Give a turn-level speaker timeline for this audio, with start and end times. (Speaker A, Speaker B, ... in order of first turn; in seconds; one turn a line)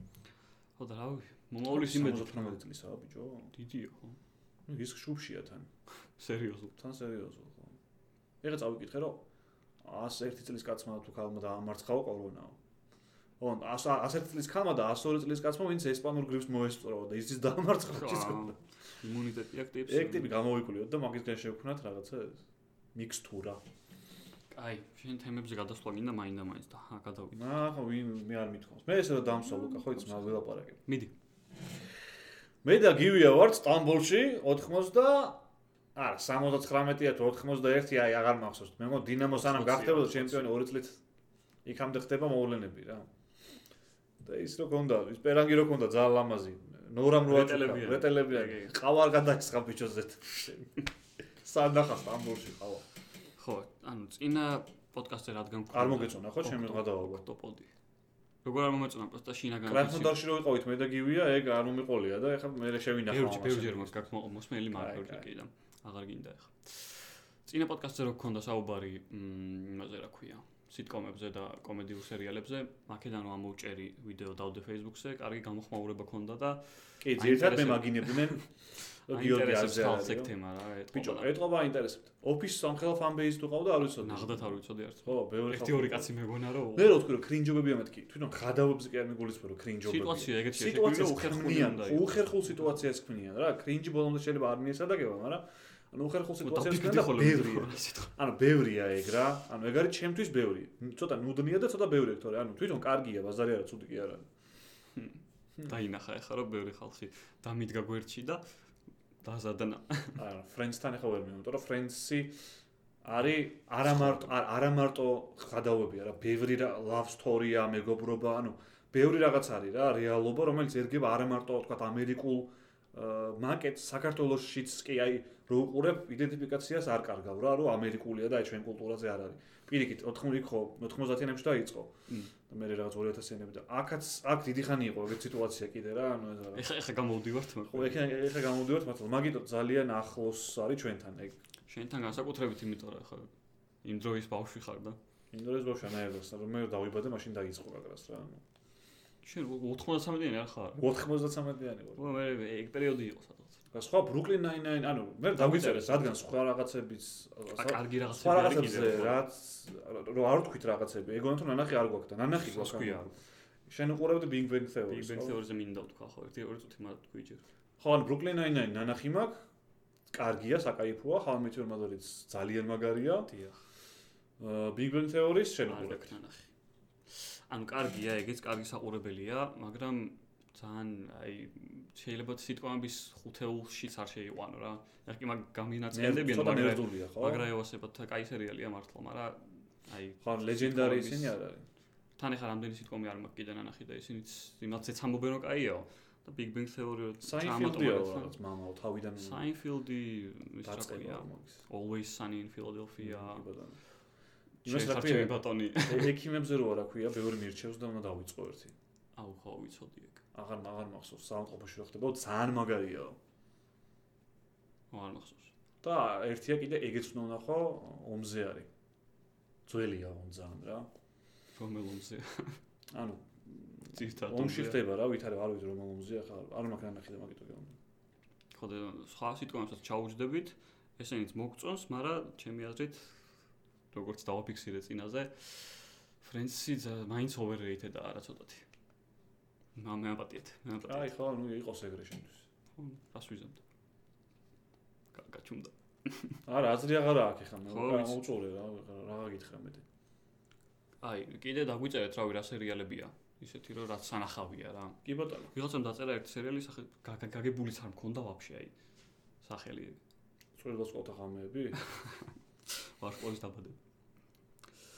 Speaker A: 0.8-2.6
Speaker B: 1.7-3.5
Speaker A: 3.5-4.2
Speaker B: 4.7-5.7
Speaker A: 6.2-6.8
Speaker B: 6.8-7.8
Speaker B: 8.4-9.2
Speaker B: 9.8-12.6
Speaker B: 13.4-18.6
Speaker A: 17.9-20.4
Speaker B: 19.9-22.4
Speaker B: 22.9-23.6
Speaker A: 24.5-27.4
Speaker B: 27.3-30.8
Speaker A: 30.9-31.1
Speaker B: 32.6-35.4
Speaker B: 36.0-41.0
Speaker A: 39.3-40.5
Speaker B: 41.6-43.1
Speaker B: 44.2-50.7
Speaker A: 47.2-48.8
Speaker B: 51.4-52.8
Speaker A: 53.4-57.7
Speaker B: 55.7-57.2
Speaker A: 58.4-60.2
Speaker B: 59.7-64.1
Speaker A: 63.1-81.4
Speaker B: 64.7-65.2
Speaker B: 77.0-78.5
Speaker B: 79.1-80.3
Speaker B: 80.9-86.1
Speaker A: 84.0-87.0
Speaker B: 86.7-104.3
Speaker A: 89.8-92.7
Speaker A: 96.4-98.1
Speaker A: 105.0-108.4
Speaker A: 109.2-110.2
Speaker B: 110.2-112.4
Speaker B: 113.0-131.9
Speaker B: 132.5-136.7
Speaker A: 136.6-138.0
Speaker B: 137.7-141.4
Speaker A: 141.7-143.3
Speaker A: 143.8-145.0
Speaker B: 145.3-148.4
Speaker A: 149.2-150.8
Speaker B: 150.8-152.1
Speaker A: 152.0-153.6
Speaker B: 153.7-163.1
Speaker A: 155.3-156.2
Speaker A: 157.5-159.2
Speaker A: 162.4-163.1
Speaker B: 163.7-165.4
Speaker A: 164.9-167.4
Speaker B: 167.8-169.4
Speaker B: 170.1-173.3
Speaker A: 173.3-173.6
Speaker B: 174.4-176.2
Speaker A: 175.7-176.5
Speaker A: 177.1-191.3
Speaker B: 185.9-187.5
Speaker B: 190.2-191.7
Speaker A: 192.2-198.3
Speaker B: 197.2-199.4
Speaker A: 199.2-203.4
Speaker B: 200.6-201.6
Speaker B: 203.0-203.8
Speaker A: 204.6-206.2
Speaker B: 204.7-208.8
Speaker A: 209.2-210.2
Speaker B: 210.3-213.2
Speaker A: 214.9-215.5
Speaker B: 215.8-218.7
Speaker B: 219.7-220.9
Speaker A: 221.6-222.6
Speaker B: 222.9-227.8
Speaker A: 223.9-224.8
Speaker A: 228.5-233.2
Speaker A: 233.9-238.7
Speaker A: 239.8-241.1
Speaker B: 240.9-242.4
Speaker A: 242.8-243.6
Speaker A: 245.1-246.4
Speaker B: 246.5-249.8
Speaker A: 247.7-248.2
Speaker A: 251.0-258.7
Speaker B: 255.1-255.5
Speaker A: 259.4-260.0
Speaker B: 260.6-261.8
Speaker A: 261.8-263.8